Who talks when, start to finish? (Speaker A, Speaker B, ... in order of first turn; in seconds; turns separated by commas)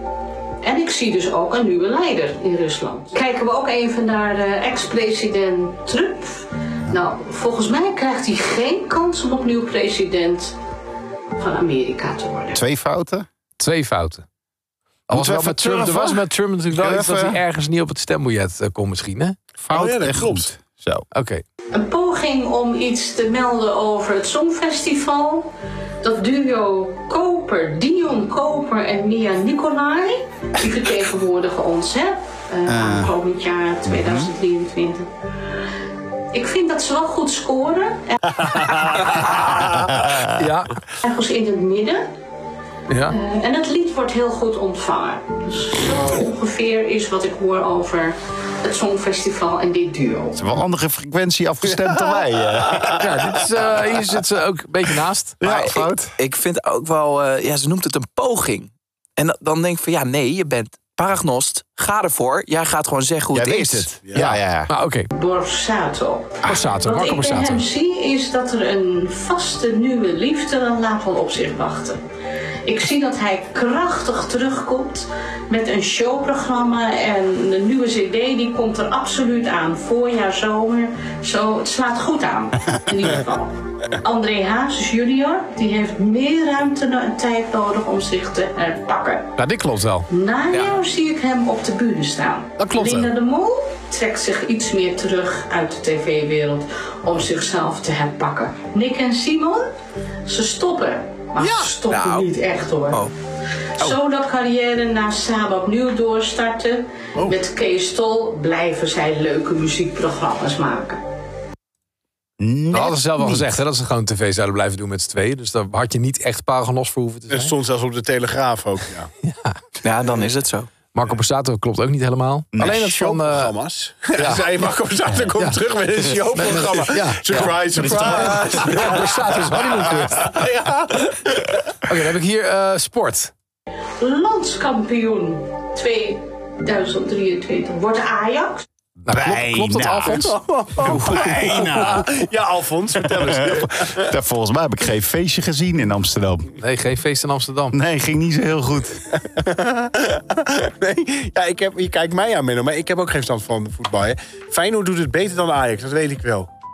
Speaker A: 0.6-10.6, Speaker A: 11.4-12.6, Speaker B: 12.5-13.3, Speaker C: 13.6-14.2, Speaker C: 15.1-19.5, Speaker B: 15.1-17.4, Speaker B: 19.6-21.1, Speaker D: 19.7-20.5, Speaker C: 21.1-21.4, Speaker A: 21.7-25.5, Speaker A: 26.0-35.1, Speaker B: 32.7-33.1, Speaker B: 33.9-34.3, Speaker A: 36.3-38.7, Speaker D: 38.4-40.1, Speaker C: 40.3-40.8, Speaker A: 40.9-42.0, Speaker C: 42.9-43.2, Speaker A: 43.1-50.4, Speaker B: 50.4-53.1, Speaker C: 53.0-55.4, Speaker B: 55.4-56.2, Speaker E: 55.4-64.0, Speaker B: 63.3-64.7, Speaker D: 64.1-64.4, Speaker C: 64.2-65.1, Speaker A: 65.1-72.0, Speaker B: 66.4-66.7, Speaker C: 66.5-67.6, Speaker A: 72.7-89.4, Speaker C: 89.4-90.1, Speaker A: 90.1-99.7, Speaker E: 90.5-90.8, Speaker C: 92.6-93.1, Speaker A: 100.2-103.1, Speaker E: 101.8-102.3, Speaker A: 103.8-111.0, Speaker B: 112.4-113.5, Speaker C: 112.7-117.5, Speaker D: 117.3-119.1, Speaker C: 119.2-119.6, Speaker E: 119.8-120.7, Speaker C: 120.9-123.5, Speaker B: 122.5-122.8, Speaker D: 122.6-131.9, Speaker C: 124.2-124.5, Speaker C: 125.3-125.6, Speaker C: 126.2-130.4, Speaker C: 131.9-133.3, Speaker A: 134.0-138.7, Speaker C: 139.1-140.4, Speaker B: 139.1-140.3, Speaker D: 140.1-144.1, Speaker B: 140.8-142.0, Speaker E: 140.9-141.3, Speaker B: 143.2-146.5, Speaker C: 146.6-147.8, Speaker B: 147.7-149.0, Speaker D: 149.1-156.5